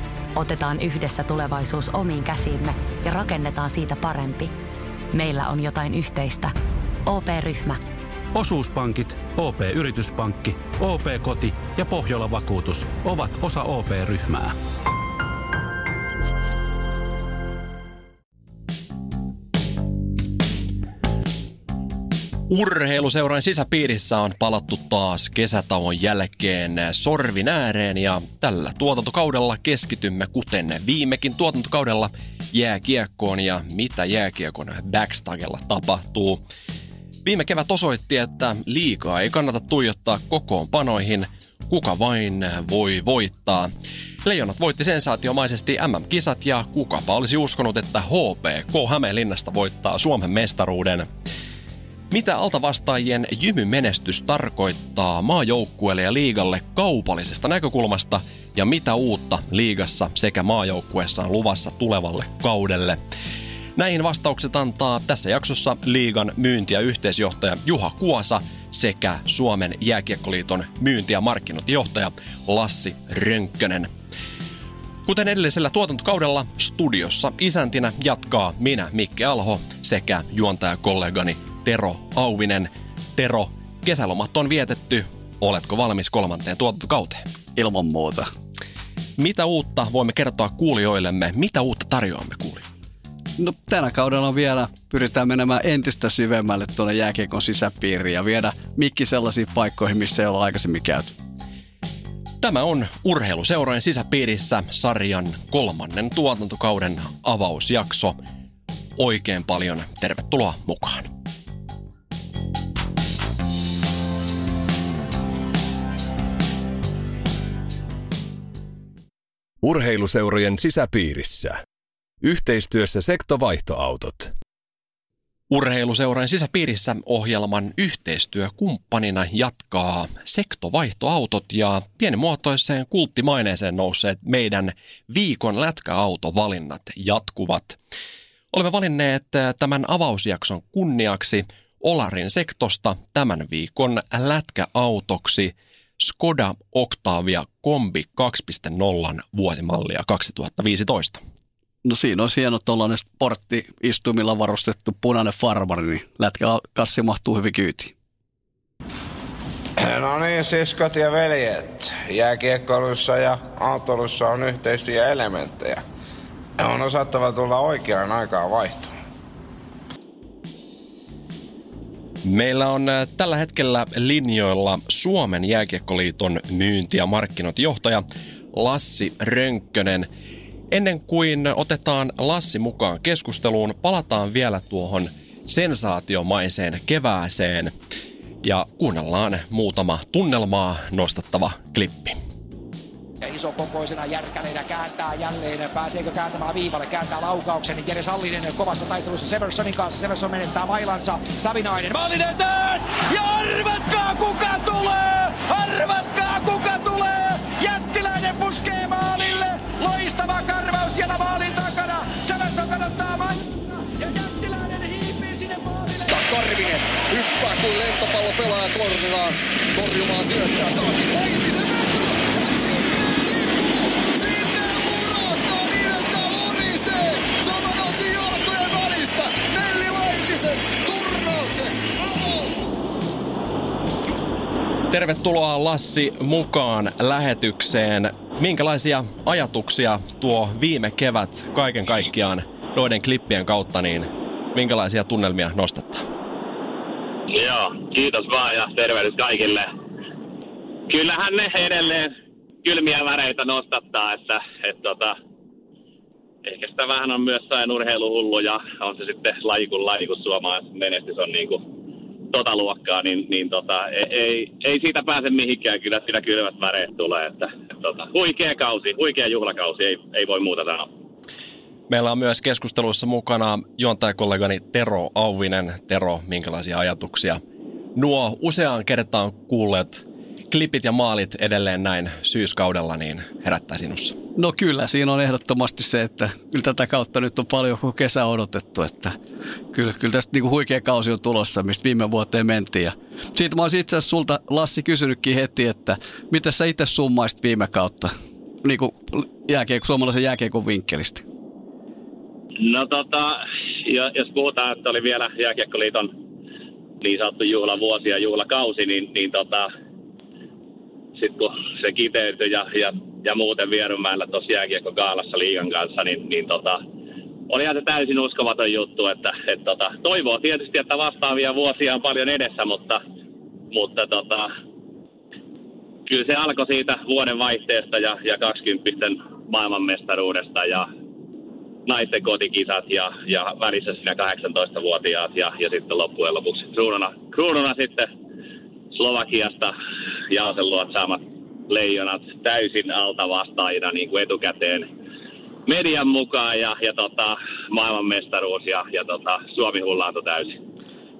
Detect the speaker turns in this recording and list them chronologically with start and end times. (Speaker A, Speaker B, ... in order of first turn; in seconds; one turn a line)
Speaker A: 0.3-4.5
Speaker A: 5.1-6.5
Speaker A: 7.1-7.8
Speaker B: 8.4-14.3
Speaker C: 22.5-36.4
Speaker C: 37.2-43.7
Speaker C: 44.2-51.1
Speaker C: 52.1-63.0
Speaker C: 63.8-73.9
Speaker C: 75.1-87.2
Speaker D: 87.6-88.3
Speaker C: 89.2-92.7
Speaker D: 93.4-101.2
Speaker C: 102.4-108.2
Speaker C: 109.0-111.1
Speaker E: 119.6-121.6
Speaker E: 122.2-124.3
Speaker C: 125.5-137.8
Speaker C: 138.5-151.2
Speaker D: 151.8-157.9
Speaker F: 159.8-165.8
Speaker F: 166.6-168.9
Speaker C: 172.2-178.0
Speaker C: 178.5-180.1
Speaker C: 180.7-187.7
Speaker C: 188.4-192.2
Speaker G: 193.2-216.8
Speaker H: 216.3-232.7
Speaker C: 234.9-246.0
Speaker I: 247.4-249.7
Speaker I: 250.9-252.1
Speaker I: 252.6-255.2
Speaker I: 256.4-261.6
Speaker I: 262.3-270.9
Speaker C: 271.9-277.4
Speaker C: 278.0-284.2
Speaker D: 284.4-289.1
Speaker D: 289.7-298.1
Speaker D: 298.6-301.2
Speaker I: 302.6-306.1
Speaker I: 307.0-309.7
Speaker I: 311.2-316.8
Speaker I: 317.5-323.0
Speaker I: 323.7-324.5
Speaker I: 326.1-330.9
Speaker I: 331.9-338.1
Speaker I: 338.9-339.7
Speaker I: 340.3-344.9
Speaker I: 345.7-350.6